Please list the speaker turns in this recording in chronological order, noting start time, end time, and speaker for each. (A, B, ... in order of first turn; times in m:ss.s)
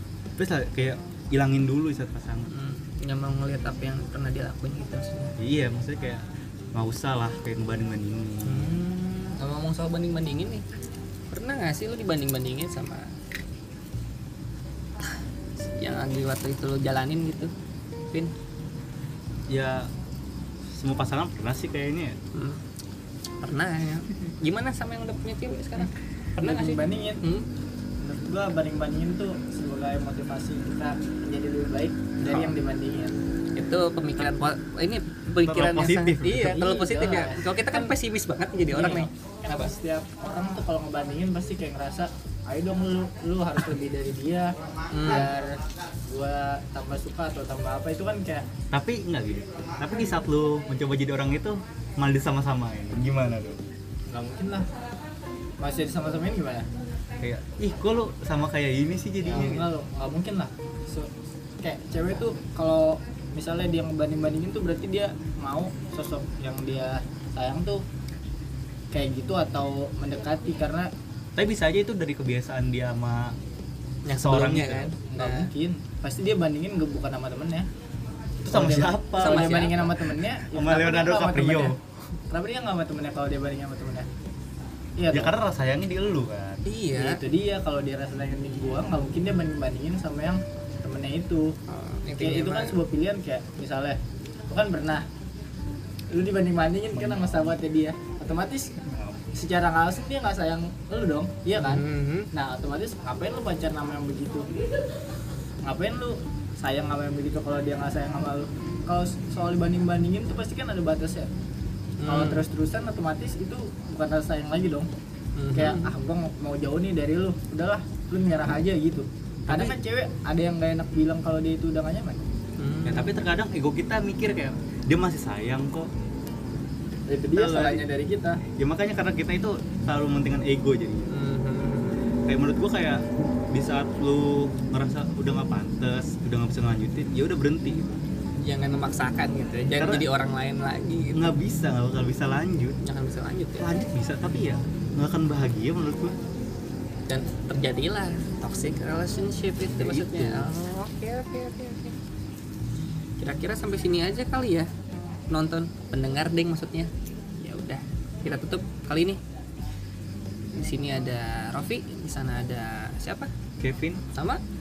0:00.4-0:02.5 A
0:02.5-0:05.3 B
0:05.4-0:08.8 A
0:08.4-0:10.6 B
0:11.3-0:13.2 B
0:15.6-0:17.5 B
0:19.5-0:19.9 A
0:20.7-0:22.2 A
0:22.3-0:22.6 B
0:23.4-0:27.5 B
0:26.4-0:27.2 C
0:28.0-0:33.1 C
0:32.2-0:32.5 B
0:33.6-0:39.1 B
0:35.4-0:36.6 A
0:36.4-0:37.9 C
0:38.7-0:48.4 C
0:44.9-0:45.3 B
0:48.7-0:53.6 A
0:54.1-0:54.7 C
0:55.6-0:56.7 C
0:57.2-0:59.7 A
0:59.2-1:01.1 C
1:01.6-1:07.8 C
1:08.9-1:10.9 C
1:11.4-1:13.4 A
1:14.0-1:15.5 B
1:14.1-1:15.0 A
1:15.1-1:17.7 C
1:18.4-1:19.7 A
1:18.5-1:21.8 C
1:19.1-1:20.1 B
1:20.4-1:21.8 A
1:22.3-1:24.1 C
1:25.0-1:25.3 C
1:25.1-1:26.6 A
1:26.7-1:27.2 B
1:27.0-1:31.5 C
1:31.7-1:32.8 B
1:32.2-1:34.0 C
1:34.5-1:35.0 C
1:36.1-1:38.7 C
1:36.9-1:37.6 A
1:38.9-1:39.2 A
1:39.3-1:44.5 C
1:41.6-1:42.3 B
1:45.6-1:51.3 C
1:52.0-1:52.4 B
1:52.1-1:54.9 C
1:55.4-1:55.9 B
1:55.5-2:02.2 C
1:59.4-1:59.8 A
2:02.6-2:03.2 B
2:02.9-2:05.9 A
2:07.1-2:08.4 C
2:07.3-2:07.8 A
2:08.6-2:11.1 A
2:11.1-2:12.0 B
2:12.3-2:17.9 A
2:18.4-2:21.3 B
2:19.8-2:20.1 A
2:21.1-2:22.8 A
2:22.8-2:23.7 B
2:23.6-2:26.2 A
2:27.1-2:32.0 B
2:29.7-2:30.5 A
2:33.2-2:34.7 B
2:35.3-2:39.2 B
2:40.5-2:43.3 B
2:43.6-2:44.0 A
2:44.1-2:44.4 B